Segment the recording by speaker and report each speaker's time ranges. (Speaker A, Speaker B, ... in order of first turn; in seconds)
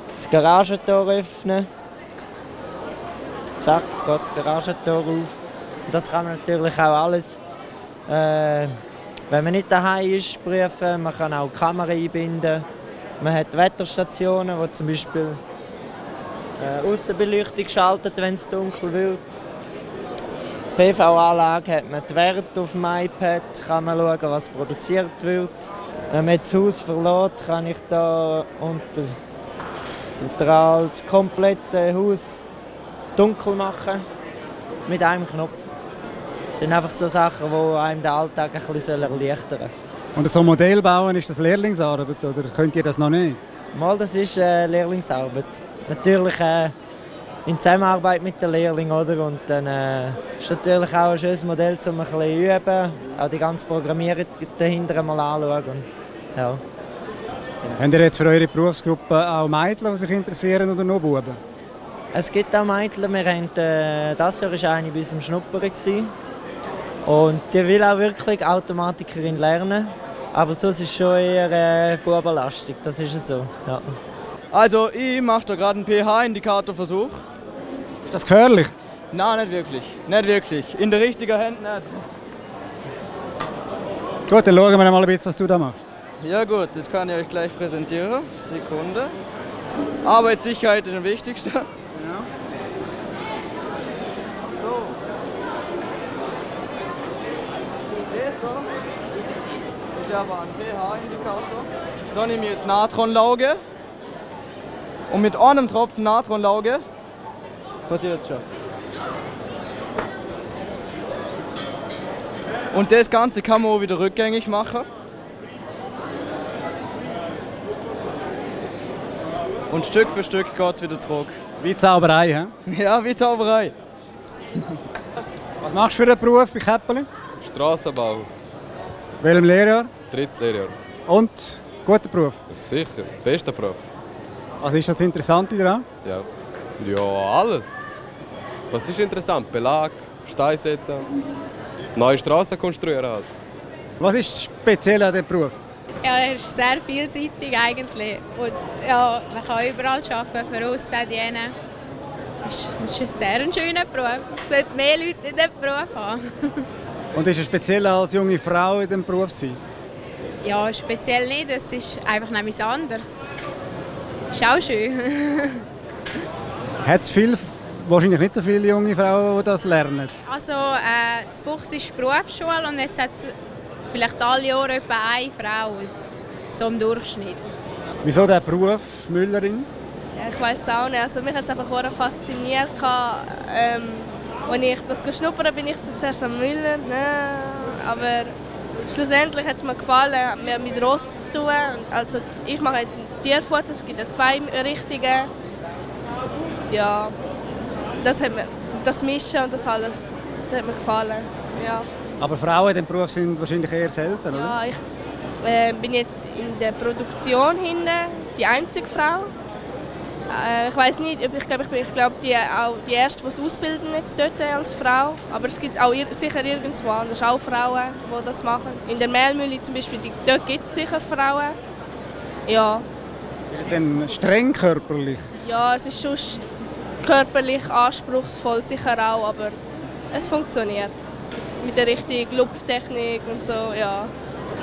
Speaker A: 0.2-1.7, 3.6-5.4, 5.9-7.4, 8.1-8.7, 9.3-12.6, 13.2-15.4, 16.6-19.3, 20.8-29.1, 30.1-32.4, 33.1-34.0, 34.9-35.6, 36.5-39.7, 43.7-46.7, 47.5-56.6, 62.1-66.1, 67.0-73.9
Speaker B: 40.1-43.4, 57.8-61.4, 78.1-78.7, 84.3-85.8, 91.9-92.3, 121.6-122.5, 125.6-127.0, 129.2-129.9, 131.1-132.4, 134.6-135.8, 144.0-145.6, 157.1-159.6, 166.8-170.2, 178.0-179.7, 202.2-204.6, 223.5-225.2
Speaker C: 74.5-77.2, 79.1-82.0, 86.2-89.1, 90.0-91.7, 94.6-95.0, 98.1-98.7, 100.0-103.6, 105.1-106.8, 107.9-108.4, 112.7-114.9, 119.7-121.4, 122.7-123.7
Speaker D: 127.4-128.3, 130.1-130.7, 132.5-133.8, 136.8-137.8, 138.7-141.1, 141.9-143.3
Speaker E: 146.0-151.5, 152.4-156.2, 160.4-163.2, 164.3-165.5, 170.3-173.3, 173.9-175.9, 176.5-177.5
Speaker F: 180.1-188.3, 188.9-195.3, 196.7-197.1, 198.0-201.8, 204.3-204.8, 205.4-209.3, 210.3-221.6, 222.5-222.8, 225.4-226.4, 227.0-229.6, 230.1-230.9, 231.6-234.1